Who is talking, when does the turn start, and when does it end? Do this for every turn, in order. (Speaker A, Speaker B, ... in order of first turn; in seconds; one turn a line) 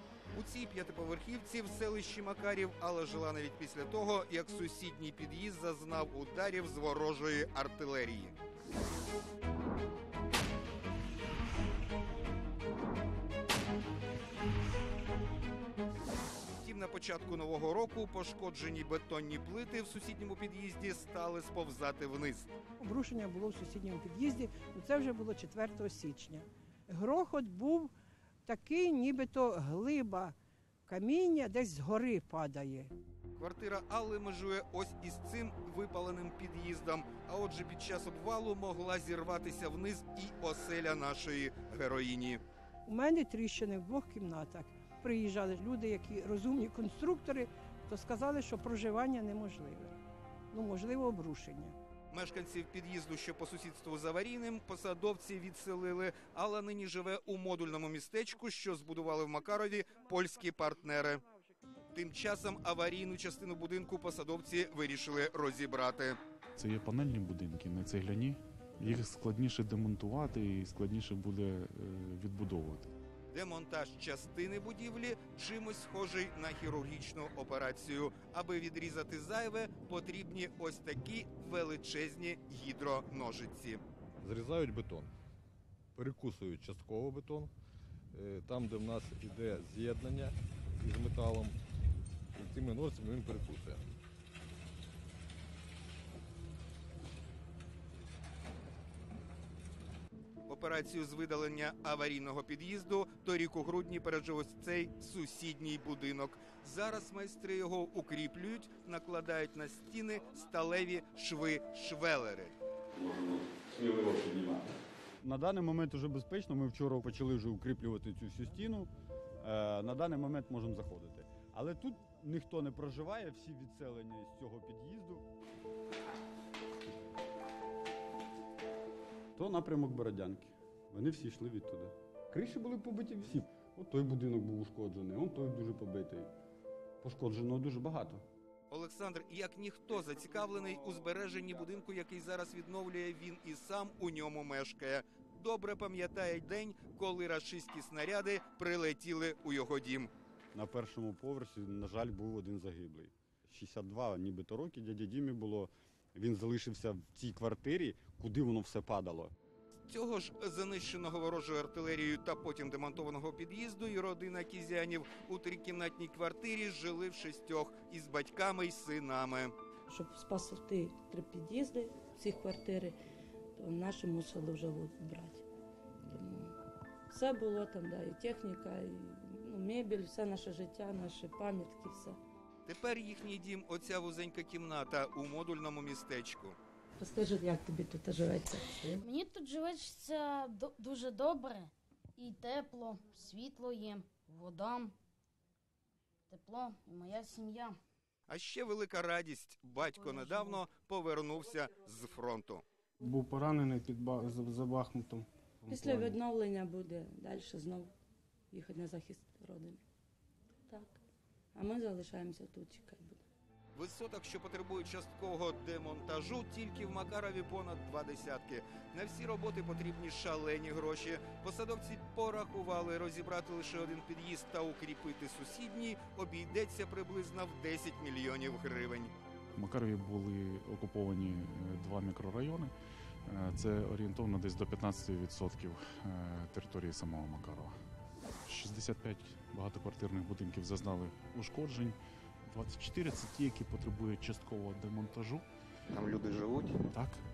Speaker A: 0.3-8.3
Speaker A: 16.6-22.5
Speaker B: 22.8-27.9
Speaker B: 28.4-30.3
Speaker B: 30.9-32.9
Speaker A: 33.4-42.4
Speaker B: 42.9-50.0
Speaker B: 50.5-51.7
Speaker A: 52.1-61.2
Speaker A: 61.9-66.2
Speaker C: 66.6-72.9
Speaker A: 73.3-83.8
Speaker D: 84.2-85.1
Speaker D: 86.0-87.5
Speaker D: 88.1-91.6
Speaker D: 92.3-93.8
Speaker A: 100.5-112.5
Speaker E: 112.9-125.2
Speaker E: 129.3-136.3
Speaker E: 137.0-138.2
Speaker A: 138.7-150.1
Speaker E: 150.5-159.3
Speaker A: 159.9-169.5
Speaker F: 169.9-172.9
Speaker F: 173.6-175.4
Speaker F: 176.1-176.5
Speaker F: 177.1-182.2
Speaker A: 182.7-186.6
Speaker F: 187.0-189.0
Speaker G: 189.0-194.9
Speaker G: 196.3-197.8
Speaker A: 198.3-202.6
Speaker H: 203.0-206.2
Speaker F: 205.7-207.9
Speaker F: 208.5-209.8
Speaker F: 210.7-211.0
Speaker F: 211.5-213.2
Speaker A: 213.8-229.1
Speaker C: 229.6-232.7
Speaker C: 233.3-237.7
Speaker C: 238.4-245.4
Speaker A: 245.9-246.7
Speaker C: 246.9-247.2